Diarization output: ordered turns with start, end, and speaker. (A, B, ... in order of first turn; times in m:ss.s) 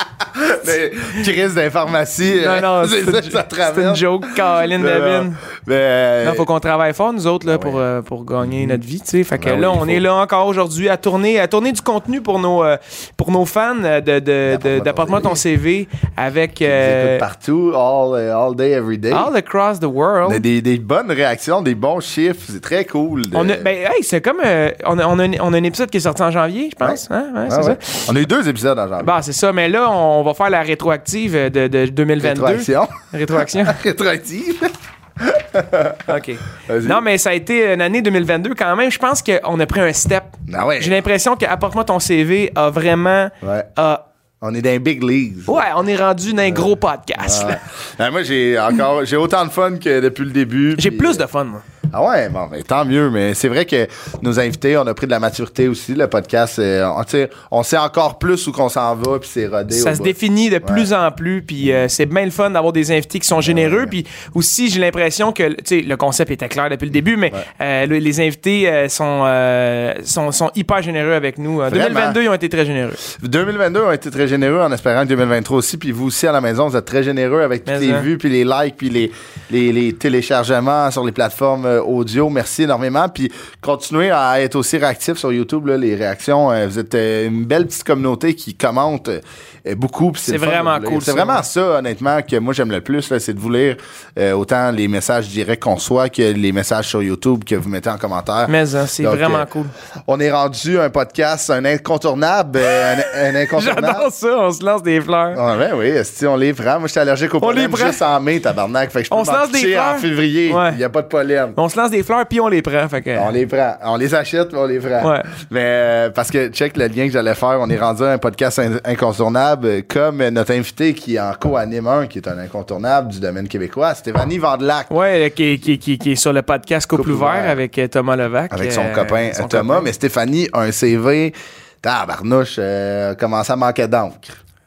0:00.2-0:06.5 A
0:02.2-0:05.4 B
0:06.2-0:17.2 B
0:07.5-0:07.8 A
0:08.4-0:08.8 A
0:09.4-0:10.0 A
0:14.5-0:15.4 A
0:16.6-0:19.3 A
0:19.1-0:20.4 B
0:20.2-0:23.7 A
0:23.3-0:28.1 B
0:26.8-0:29.2 A
0:29.0-0:33.8 B
0:32.2-0:36.1 A
0:36.1-0:44.0 B
0:36.7-0:37.0 A
0:40.5-0:41.0 A
0:43.4-0:43.7 A
0:44.4-0:45.5 A
0:45.5-0:47.6 B
0:47.2-0:51.2 A
0:50.8-0:51.6 B
0:51.9-1:00.9 A
0:59.7-1:13.0 B
1:03.4-1:03.9 A
1:11.7-1:12.2 A
1:13.1-1:39.5 A
1:17.7-1:18.1 B
1:30.2-1:31.4 B
1:38.5-1:39.7 B
1:40.1-1:44.1 A
1:42.7-1:45.4 B
1:45.3-1:51.6 A
1:47.4-1:48.0 B
1:49.1-1:50.8 B
1:51.6-1:53.3 B
1:53.2-2:04.9 A
1:55.0-1:55.3 B
2:04.9-2:09.9 B
2:06.9-2:07.6 A
2:08.5-2:14.4 A